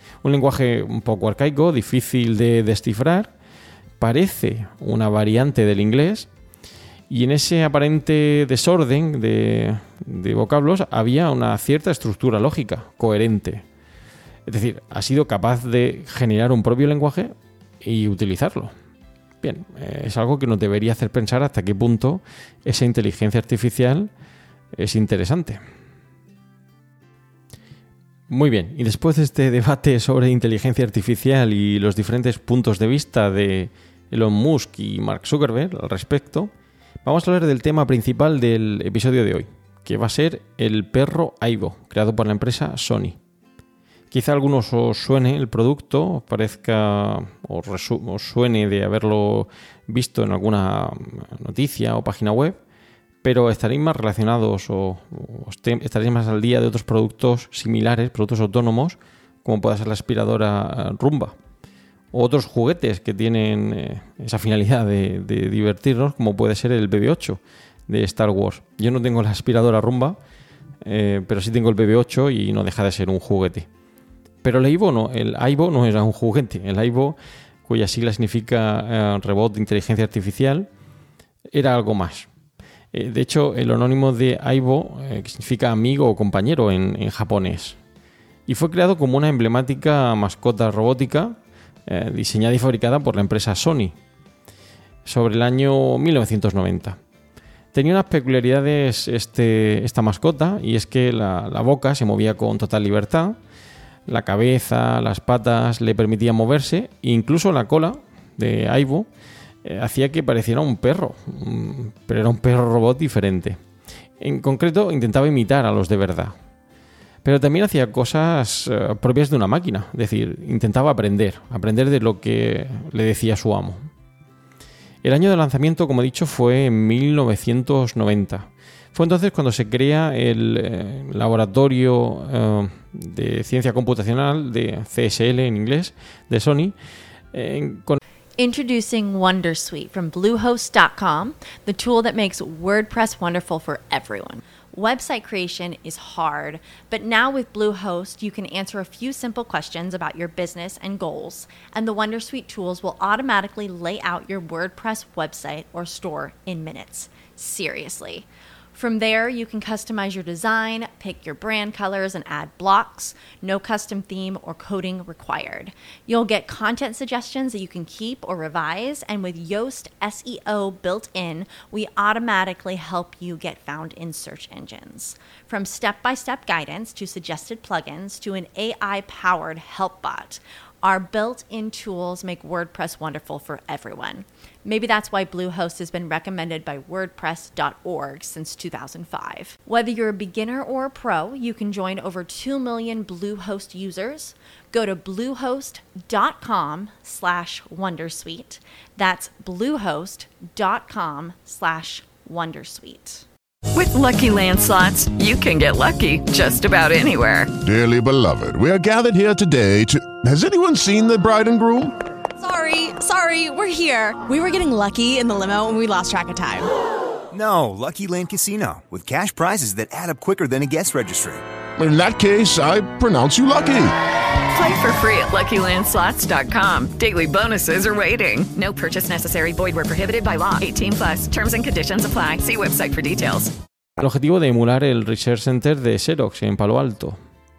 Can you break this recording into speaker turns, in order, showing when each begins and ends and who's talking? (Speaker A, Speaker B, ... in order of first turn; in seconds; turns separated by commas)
Speaker A: 0.2-3.3, Speaker A: 4.0-6.3, Speaker A: 7.1-13.7, Speaker A: 14.5-18.7, Speaker A: 19.4-24.1, Speaker A: 24.7-25.6, Speaker A: 28.3-36.5, Speaker A: 37.0-43.2, Speaker A: 44.1-52.6, Speaker A: 53.2-61.4, Speaker A: 62.1-70.2, Speaker A: 70.8-73.7, Speaker A: 74.4-80.7, Speaker A: 81.5-82.3, Speaker A: 82.9-87.8, Speaker A: 88.5-94.0, Speaker A: 95.0-97.0, Speaker A: 97.7-103.4, Speaker A: 104.1-109.1, Speaker A: 109.6-113.6, Speaker A: 114.2-116.3, Speaker A: 117.2-123.9, Speaker A: 125.0-136.8, Speaker A: 137.3-138.0, Speaker B: 138.4-203.3, Speaker C: 203.7-207.5, Speaker D: 207.6-212.0, Speaker E: 212.4-216.7, Speaker F: 217.3-221.4, Speaker D: 221.8-223.9, Speaker C: 224.5-233.5, Speaker A: 234.0-237.2